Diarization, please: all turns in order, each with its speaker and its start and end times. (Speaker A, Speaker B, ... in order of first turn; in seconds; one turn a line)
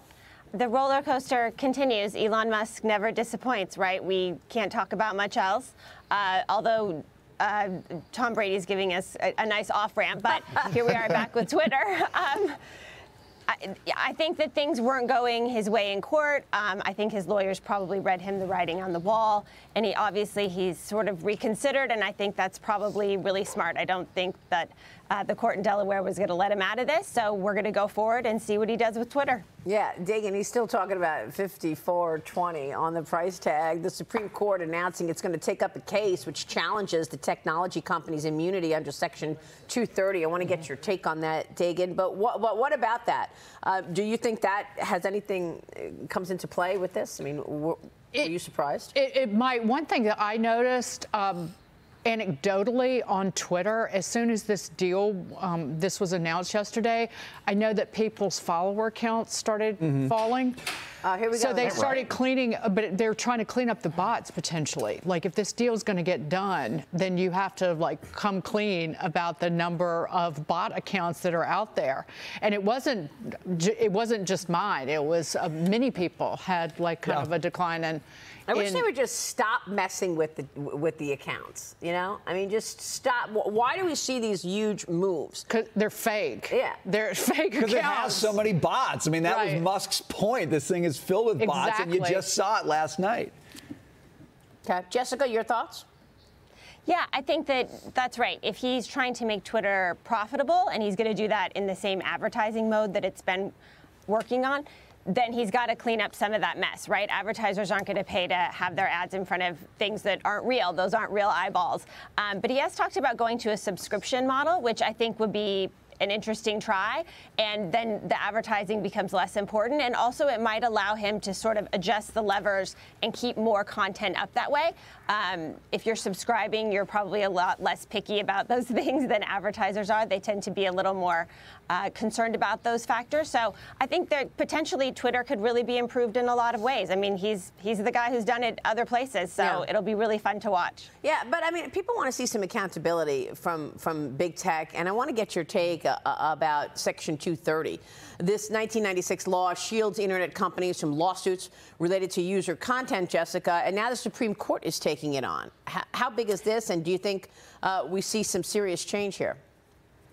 Speaker A: 0.5-12.6
Speaker A: 13.5-29.4
Speaker B: 29.6-48.9
Speaker C: 48.9-51.5
Speaker C: 52.0-60.6
Speaker B: 61.0-62.1
Speaker C: 61.3-78.8
Speaker B: 78.5-85.5
Speaker C: 85.5-88.4
Speaker B: 86.5-86.8
Speaker D: 87.6-93.3
Speaker C: 89.3-89.6
Speaker C: 91.4-92.2
Speaker B: 94.6-95.8
Speaker A: 96.8-103.5
Speaker A: 104.1-140.9
Speaker B: 139.4-139.6
Speaker B: 141.0-159.4